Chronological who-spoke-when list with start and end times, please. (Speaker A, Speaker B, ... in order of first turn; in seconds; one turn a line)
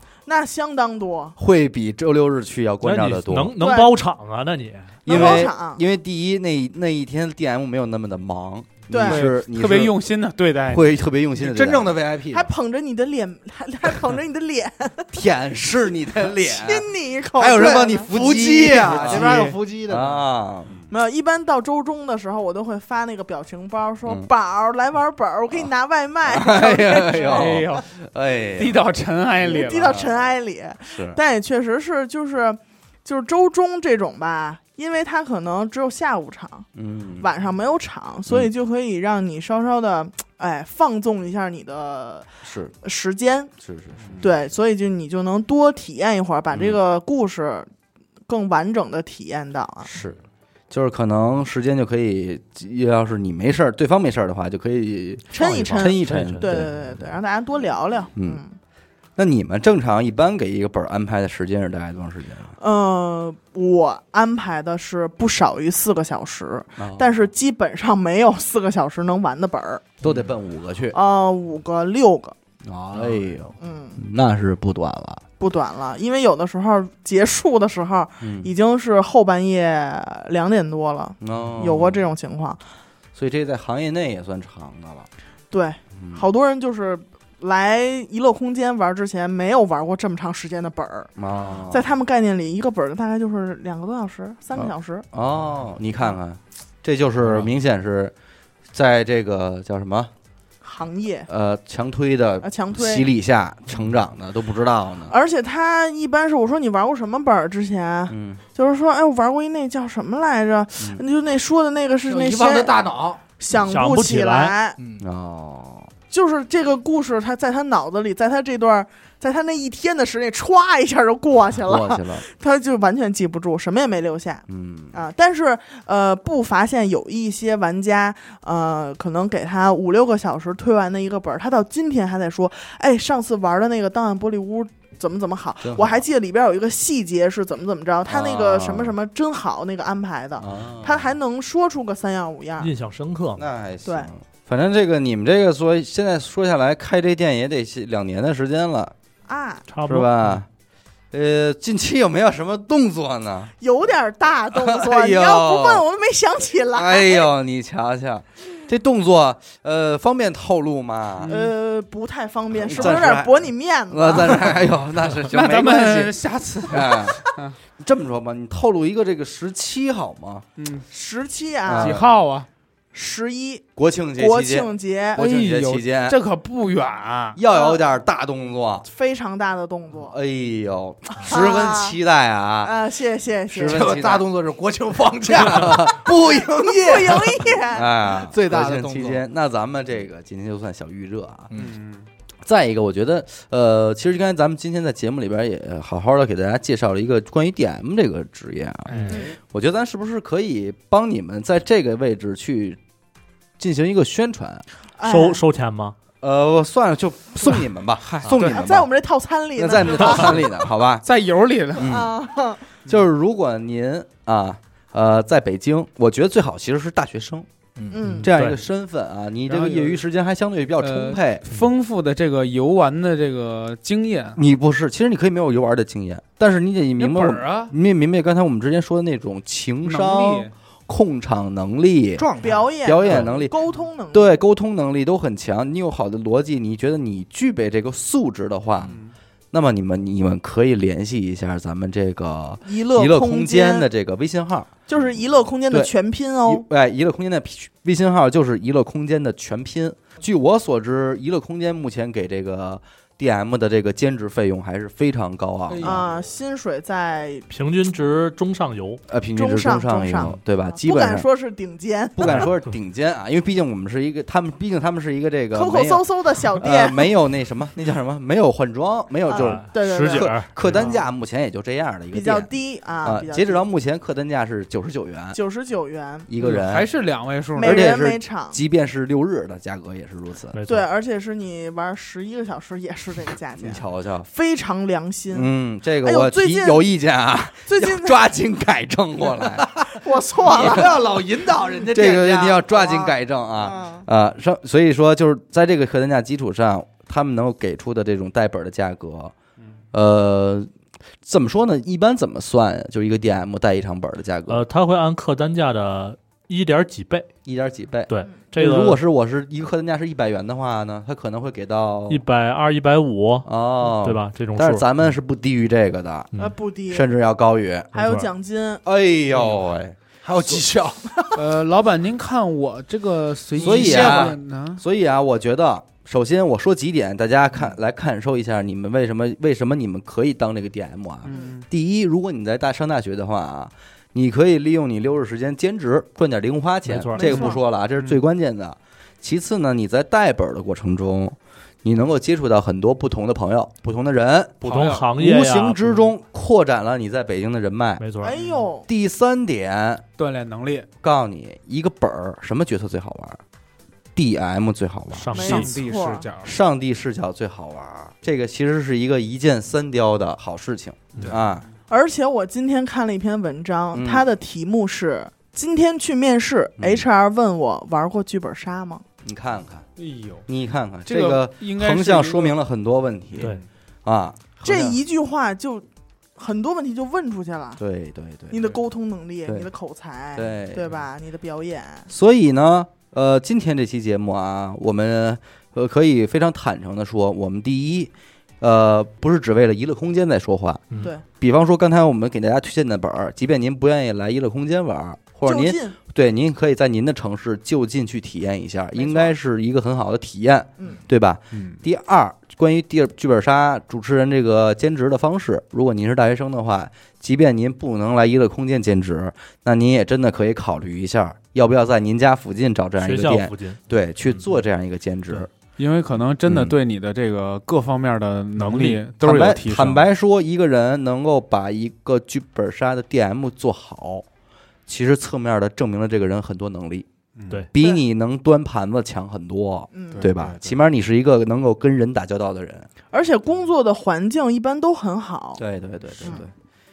Speaker A: 0.3-1.4
Speaker B: 1.4-3.5
Speaker C: 2.8-5.0
Speaker A: 3.6-3.9
Speaker A: 5.1-5.8
Speaker B: 5.1-10.0
Speaker A: 8.9-9.2
Speaker D: 9.0-10.9
Speaker B: 10.7-11.9
Speaker E: 11.4-12.5
Speaker A: 12.3-15.1
Speaker B: 15.1-20.7
Speaker A: 16.3-18.1
Speaker E: 17.4-20.2
Speaker D: 18.9-19.6
Speaker A: 20.9-27.8
Speaker B: 26.3-28.8
Speaker D: 27.1-27.9
Speaker D: 28.6-30.1
Speaker A: 29.4-36.7
Speaker B: 29.8-30.3
Speaker B: 30.9-31.2
Speaker B: 36.8-37.3
Speaker A: 37.2-42.3
Speaker B: 42.4-42.7
Speaker A: 42.8-43.5
Speaker B: 43.6-44.2
Speaker A: 44.2-47.7
Speaker B: 46.5-46.8
Speaker A: 48.3-49.9
Speaker B: 49.8-50.2
Speaker B: 50.7-57.1
Speaker A: 55.3-58.6
Speaker C: 55.4-56.6
Speaker B: 58.2-58.4
Speaker B: 59.2-62.6
Speaker A: 62.6-69.8
Speaker B: 66.8-67.3
Speaker B: 70.0-71.0
Speaker E: 70.0-70.3
Speaker A: 70.9-72.3
Speaker B: 72.6-75.2
Speaker A: 73.6-74.0
Speaker A: 75.4-82.6
Speaker B: 78.2-78.5
Speaker B: 81.2-82.0
Speaker B: 83.2-85.1
Speaker A: 85.5-91.1
Speaker B: 86.0-86.2
Speaker B: 91.2-91.9
Speaker A: 91.7-95.0
Speaker B: 94.5-98.1
Speaker B: 98.7-100.1
Speaker A: 100.6-101.3
Speaker B: 101.3-105.1
Speaker A: 102.4-103.1
Speaker A: 105.1-112.8
Speaker B: 108.1-108.4
Speaker B: 110.8-111.0
Speaker E: 112.1-113.2
Speaker A: 113.4-114.8
Speaker C: 113.5-114.5
Speaker E: 114.8-115.0
Speaker B: 115.0-115.9
Speaker A: 116.1-142.7
Speaker B: 121.6-122.3
Speaker B: 124.5-125.0
Speaker B: 135.6-136.0
Speaker B: 138.1-138.9
Speaker B: 140.4-141.2
Speaker C: 142.6-143.4
Speaker B: 143.4-148.9
Speaker A: 149.3-149.7
Speaker C: 149.7-150.4
Speaker B: 149.9-150.5
Speaker B: 151.1-153.5
Speaker A: 153.6-157.3
Speaker B: 154.5-155.8
Speaker B: 156.7-161.3
Speaker D: 161.2-161.5
Speaker A: 161.3-164.7
Speaker B: 162.6-166.2
Speaker D: 165.3-167.6
Speaker B: 166.7-167.2
Speaker B: 167.8-170.5
Speaker D: 170.6-170.9
Speaker A: 170.9-172.1
Speaker B: 171.7-172.1
Speaker D: 171.7-172.5
Speaker A: 172.9-173.7
Speaker B: 173.8-176.2
Speaker A: 174.2-175.2
Speaker D: 175.2-177.4
Speaker B: 177.4-178.9
Speaker A: 177.5-177.8
Speaker A: 178.8-180.2
Speaker B: 180.0-182.8
Speaker A: 181.1-182.0
Speaker A: 182.6-184.0
Speaker B: 183.5-184.3
Speaker E: 183.7-187.5
Speaker B: 185.3-191.5
Speaker A: 186.6-188.2
Speaker E: 188.2-189.2
Speaker D: 191.6-192.1
Speaker B: 192.5-202.8
Speaker D: 198.9-199.3
Speaker A: 199.1-199.3
Speaker B: 203.6-204.7
Speaker A: 205.0-205.4
Speaker C: 205.0-206.0
Speaker B: 206.2-208.9
Speaker D: 208.1-208.4
Speaker A: 208.4-210.4
Speaker B: 209.6-211.1
Speaker D: 211.0-212.0
Speaker B: 211.8-212.1
Speaker A: 211.8-212.7
Speaker B: 212.8-217.5
Speaker E: 217.8-218.1
Speaker A: 217.9-218.3
Speaker B: 218.2-221.4
Speaker D: 219.5-220.0
Speaker D: 220.8-224.4
Speaker B: 224.3-232.3
Speaker D: 227.0-227.7
Speaker D: 229.8-230.5
Speaker E: 232.2-232.7
Speaker A: 232.4-234.3
Speaker B: 232.8-233.6
Speaker B: 234.1-239.0
Speaker D: 238.9-239.1
Speaker B: 239.5-244.7
Speaker A: 242.6-243.9
Speaker A: 244.9-246.7
Speaker B: 246.5-256.1
Speaker E: 255.7-256.1
Speaker A: 255.8-257.5
Speaker C: 257.5-259.0
Speaker B: 259.1-261.3
Speaker A: 259.4-262.5
Speaker B: 262.2-272.5
Speaker A: 265.5-267.1
Speaker A: 269.3-270.3
Speaker C: 269.3-270.5
Speaker D: 270.7-271.0
Speaker A: 272.1-273.6
Speaker B: 273.0-275.4
Speaker A: 275.4-276.3
Speaker B: 276.3-276.9
Speaker D: 276.4-277.8
Speaker A: 277.5-278.6
Speaker B: 277.6-280.6
Speaker C: 280.5-280.9
Speaker A: 280.7-285.5
Speaker B: 283.6-284.3
Speaker B: 285.3-289.8
Speaker A: 286.0-286.9
Speaker A: 287.7-288.2
Speaker A: 289.9-290.9
Speaker E: 290.4-292.7
Speaker B: 290.5-291.0
Speaker B: 291.9-299.4
Speaker A: 292.7-294.1
Speaker B: 299.9-300.7
Speaker B: 301.2-304.6
Speaker C: 304.5-307.3
Speaker B: 307.5-312.2
Speaker C: 308.1-309.0
Speaker C: 312.1-314.9
Speaker B: 313.4-316.3
Speaker A: 316.4-317.1
Speaker B: 316.9-317.9
Speaker A: 317.9-318.8
Speaker C: 317.9-318.3
Speaker B: 318.9-320.0
Speaker E: 320.2-321.1
Speaker D: 321.4-324.8
Speaker E: 323.5-324.4
Speaker B: 323.6-348.0
Speaker D: 331.2-331.7
Speaker C: 336.9-337.4
Speaker A: 337.2-337.6
Speaker D: 344.6-345.1
Speaker C: 344.7-345.9
Speaker C: 348.0-348.4
Speaker A: 348.2-348.9
Speaker B: 348.9-350.1
Speaker D: 350.2-350.9
Speaker B: 351.0-353.4
Speaker B: 354.1-355.6
Speaker C: 355.1-355.7
Speaker A: 355.3-356.3
Speaker D: 355.4-356.6
Speaker B: 356.4-361.6
Speaker D: 361.1-361.4
Speaker A: 361.9-369.0
Speaker B: 363.9-364.3
Speaker B: 366.8-367.1
Speaker B: 369.2-369.9
Speaker D: 370.0-370.5
Speaker B: 370.5-375.0
Speaker D: 371.1-372.6
Speaker A: 374.6-375.9
Speaker A: 376.4-377.8
Speaker B: 377.8-378.7
Speaker A: 378.5-382.1
Speaker B: 380.4-380.9
Speaker B: 382.1-415.5
Speaker A: 395.4-396.0
Speaker A: 399.0-399.3
Speaker A: 400.8-401.1
Speaker D: 401.5-401.8
Speaker C: 413.0-413.8
Speaker D: 415.3-420.1
Speaker B: 416.5-416.8
Speaker C: 418.6-419.0
Speaker B: 419.2-424.3
Speaker B: 424.9-427.1
Speaker D: 427.4-427.7
Speaker B: 427.7-432.9
Speaker A: 429.9-430.3
Speaker D: 430.1-430.7
Speaker A: 433.1-435.6
Speaker B: 435.6-436.5
Speaker A: 436.2-436.5